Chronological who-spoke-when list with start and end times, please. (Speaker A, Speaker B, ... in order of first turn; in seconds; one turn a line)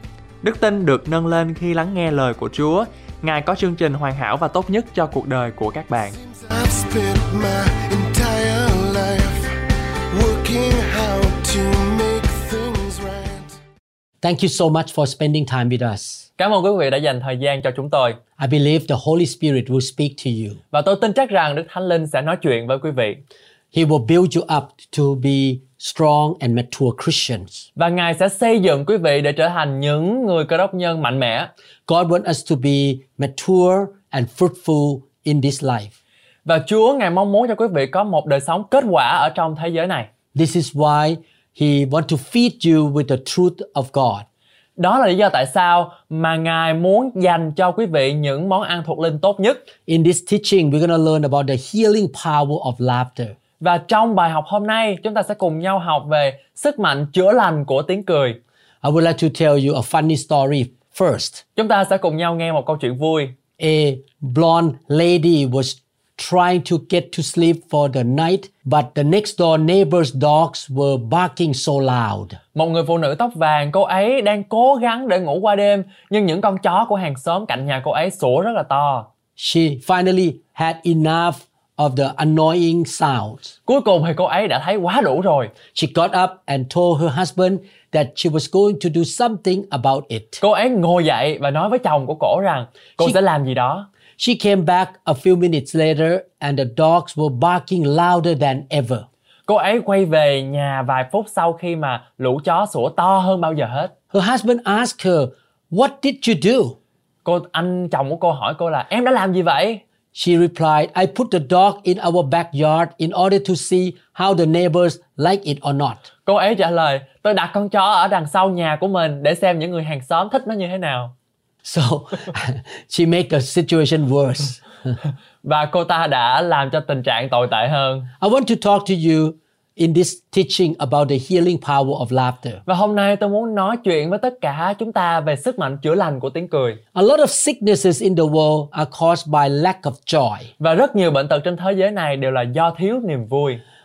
Speaker A: 0.4-6.2
Speaker B: 6.2-9.6
Speaker B: 10.1-13.6
Speaker C: 14.2-16.2
Speaker A: 16.4-18.2
Speaker C: 18.4-20.6
Speaker A: 20.7-23.2
Speaker C: 23.7-27.6
Speaker A: 27.8-31.5
Speaker C: 31.9-35.9
Speaker A: 36.5-40.1
Speaker C: 40.3-44.2
Speaker A: 44.8-49.6
Speaker C: 49.9-53.4
Speaker A: 53.6-58.4
Speaker C: 58.8-61.4
Speaker A: 61.5-63.3
Speaker C: 63.6-72.4
Speaker A: 72.5-79.0
Speaker C: 79.4-83.5
Speaker A: 83.7-85.5
Speaker C: 85.7-90.4
Speaker A: 90.4-93.9
Speaker C: 94.2-99.0
Speaker A: 99.5-103.9
Speaker C: 104.1-106.8
Speaker A: 107.2-109.8
Speaker C: 110.1-116.1
Speaker A: 116.2-121.1
Speaker C: 121.6-124.6
Speaker A: 125.4-128.1
Speaker C: 128.2-132.6
Speaker A: 132.7-136.8
Speaker C: 136.9-140.5
Speaker A: 140.6-143.6